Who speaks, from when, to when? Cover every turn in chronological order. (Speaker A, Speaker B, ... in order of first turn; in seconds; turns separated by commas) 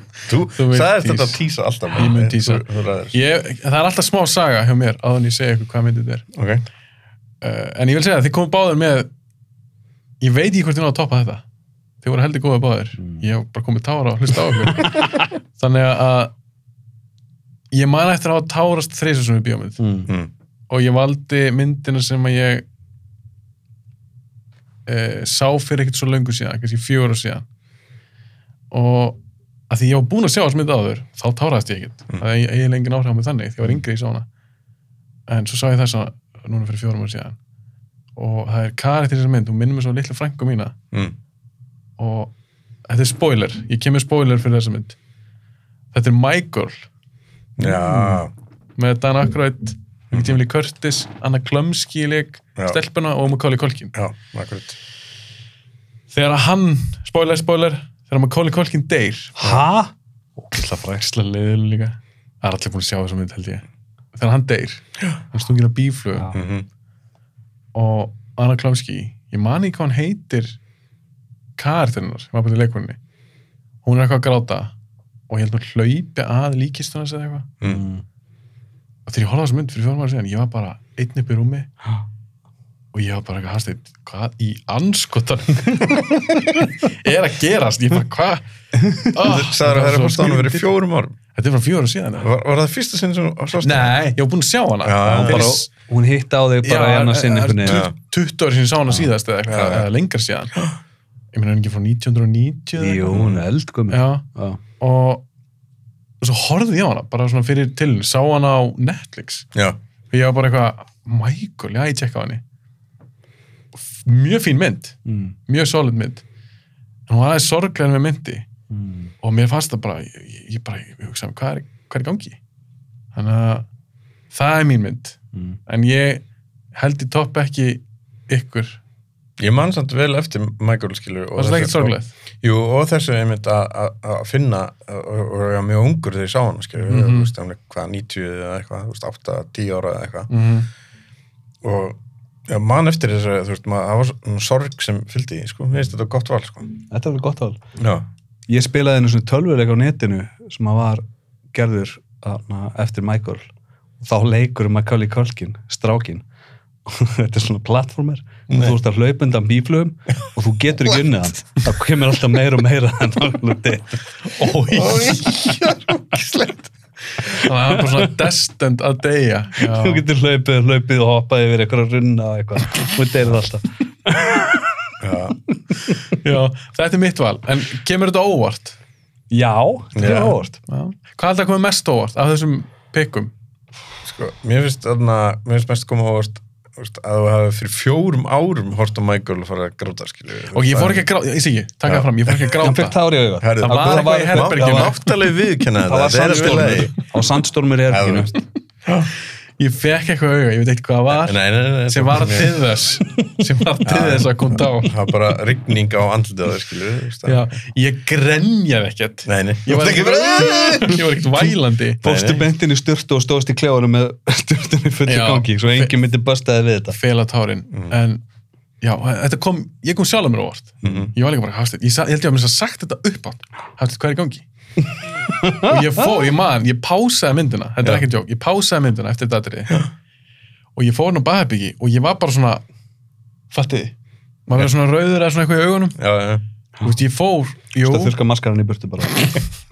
Speaker A: 0.2-3.1, Speaker B: 0.6-1.4, Speaker B: 1.9-6.2, Speaker A: 6.3-6.6, Speaker B: 7.4-9.1, Speaker B: 10.2-11.4, Speaker B: 12.0-16.3, Speaker B: 17.7-19.8, Speaker C: 19.8-20.1, Speaker B: 20.7-22.6, Speaker B: 24.9-27.4, Speaker B: 28.7-29.2, Speaker B: 29.7-34.3, Speaker B: 35.3-37.4, Speaker B: 38.2-40.7, Speaker B: 42.0-42.3, Speaker B: 42.9-45.0, Speaker B: 45.9-46.9, Speaker A: 47.6-48.3, Speaker B: 47.6-48.2, Speaker B: 48.8-53.9, Speaker A: 50.1-50.4, Speaker A: 54.0-54.8, Speaker B: 56.1-59.6, Speaker C: 59.4-61.1, Speaker B: 61.0-66.3, Speaker A: 66.3-66.7, Speaker B: 67.7-70.6, Speaker B: 71.6-73.0, Speaker B: 73.8-74.7, Speaker B: 75.3-77.5, Speaker C: 77.6-78.0, Speaker B: 79.1-81.7, Speaker B: 82.9-90.7, Speaker A: 89.2-91.2, Speaker B: 91.3-92.3, Speaker A: 92.2-94.0, Speaker B: 93.6-95.7, Speaker A: 94.8-95.6, Speaker C: 95.0-97.9, Speaker B: 96.6-100.5, Speaker A: 97.6-97.9, Speaker A: 99.5-99.9, Speaker B: 101.3-103.1, Speaker C: 102.8-104.6, Speaker A: 103.1-103.4, Speaker B: 103.9-104.2, Speaker B: 104.8-105.2, Speaker B: 106.2-109.5, Speaker B: 110.1-112.4, Speaker B: 113.9-116.2, Speaker C: 115.1-115.3, Speaker B: 117.1-118.5, Speaker C: 118.7-119.1, Speaker B: 119.2-122.4, Speaker B: 123.1-123.7, Speaker B: 124.3-128.8, Speaker A: 129.4-140.3, Speaker B: 131.4-132.1, Speaker B: 136.8-137.3, Speaker B: 140.3-140.7, Speaker A: 141.6-146.7, Speaker C: 146.9-147.6, Speaker A: 147.8-148.1, Speaker C: 148.5-153.5, Speaker C: 154.0-156.2, Speaker C: 156.8-164.0, Speaker A: 158.5-158.7, Speaker B: 164.2-165.5, Speaker A: 164.7-166.7, Speaker B: 167.3-170.1, Speaker C: 167.7-168.1, Speaker C: 169.6-174.9, Speaker A: 175.0-175.4, Speaker B: 176.1-178.8, Speaker C: 179.3-180.6, Speaker A: 179.9-180.4, Speaker B: 180.7-183.3, Speaker A: 184.1-191.0, Speaker B: 190.5-193.0, Speaker A: 191.9-192.5, Speaker C: 192.6-194.9, Speaker A: 193.4-196.9, Speaker B: 193.6-195.2, Speaker C: 195.8-198.4, Speaker B: 196.3-196.8, Speaker A: 197.9-198.3, Speaker B: 199.6-205.0, Speaker A: 201.1-202.6, Speaker A: 203.9-207.4, Speaker B: 207.2-212.0, Speaker A: 209.3-211.1, Speaker C: 212.0-217.0, Speaker A: 212.0-212.4, Speaker B: 215.1-215.9, Speaker B: 216.9-218.2, Speaker B: 218.8-224.4, Speaker A: 220.8-221.1, Speaker C: 225.4-225.8, Speaker B: 225.4-229.8, Speaker B: 230.8-232.6, Speaker B: 233.5-233.9, Speaker B: 234.5-236.0, Speaker A: 236.0-236.4, Speaker B: 236.8-238.2, Speaker C: 237.8-239.3